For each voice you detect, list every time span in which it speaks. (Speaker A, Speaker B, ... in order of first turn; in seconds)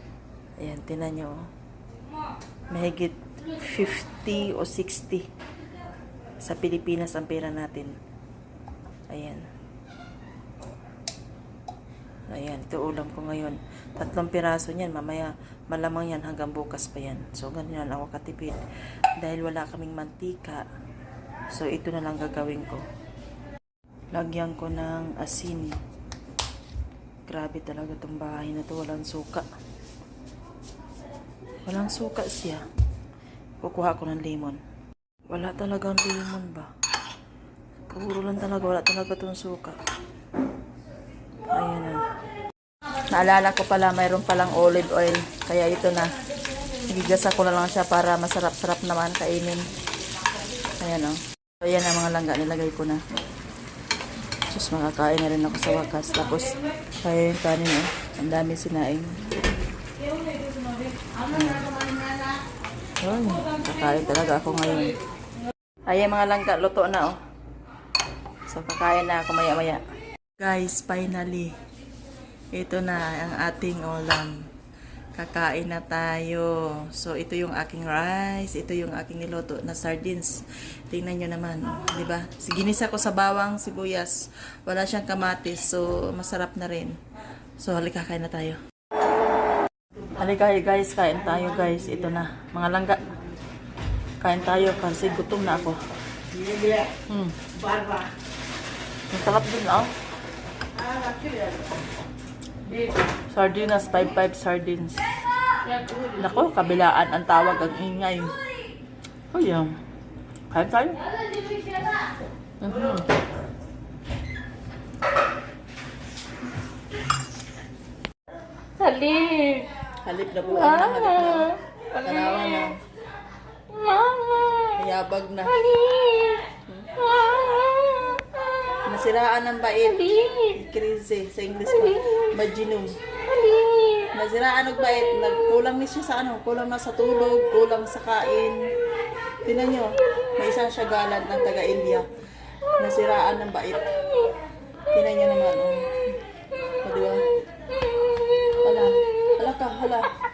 Speaker A: 0.6-1.4, 2.7-5.3, 6.4-8.0, 9.1-9.4, 12.3-18.6, 19.2-20.6, 21.5-22.8, 24.1-25.8, 27.3-29.4, 31.6-32.6, 33.6-34.6, 35.3-36.7, 37.9-39.8, 41.5-42.0, 43.1-46.1, 46.9-49.7, 50.8-53.0, 54.5-59.2, 61.3-61.7, 63.0-65.0, 65.8-67.2, 68.5-69.8, 70.4-71.6, 72.5-74.5, 75.1-87.0, 87.6-88.6, 90.2-93.1, 94.2-95.8, 97.0-97.4, 99.1-99.9, 103.3-105.0, 106.1-108.3, 109.3-109.7, 110.5-111.0, 112.6-113.0, 120.0-122.8, 124.7-125.6, 128.8-132.9, 134.1-138.7, 139.4-142.1, 142.8-143.9, 144.9-145.9, 146.8-147.2, 148.6-150.1
Speaker B: 118.8-119.7, 120.8-122.3, 123.7-124.7, 125.6-126.5, 127.0-128.2, 130.1-130.4, 133.3-134.1